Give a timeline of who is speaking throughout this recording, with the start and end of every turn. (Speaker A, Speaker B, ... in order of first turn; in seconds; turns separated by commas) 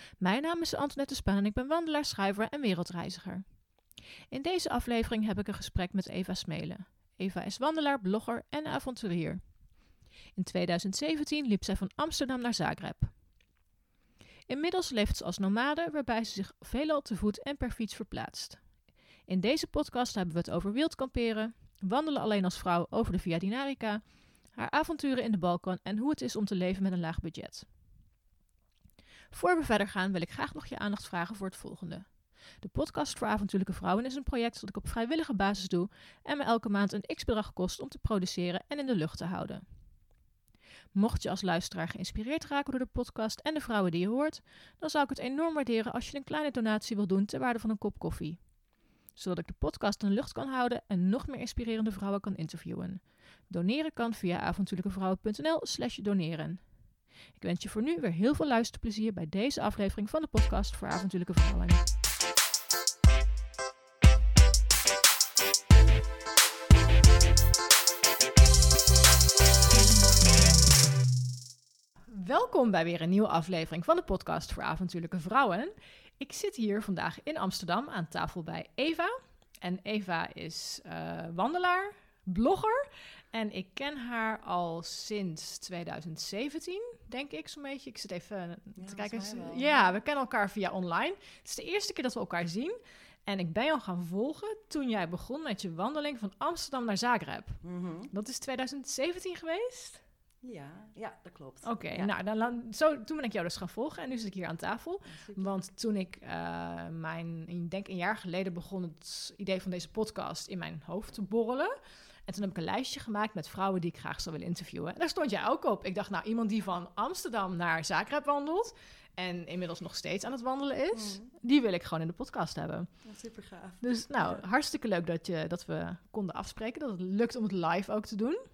Speaker A: 0.2-3.7, Speaker A: 4.3-9.5, Speaker A: 10.3-13.1, Speaker A: 14.5-27.7, Speaker A: 29.3-39.7, Speaker A: 41.0-48.4, Speaker A: 49.1-61.9, Speaker A: 72.1-97.6, Speaker B: 88.8-90.0, Speaker B: 97.6-98.1, Speaker A: 98.1-100.0, Speaker B: 100.4-102.1, Speaker A: 101.6-111.7, Speaker B: 105.1-105.6, Speaker A: 112.3-122.9, Speaker B: 120.9-121.3, Speaker B: 123.0-124.4, Speaker A: 123.8-128.4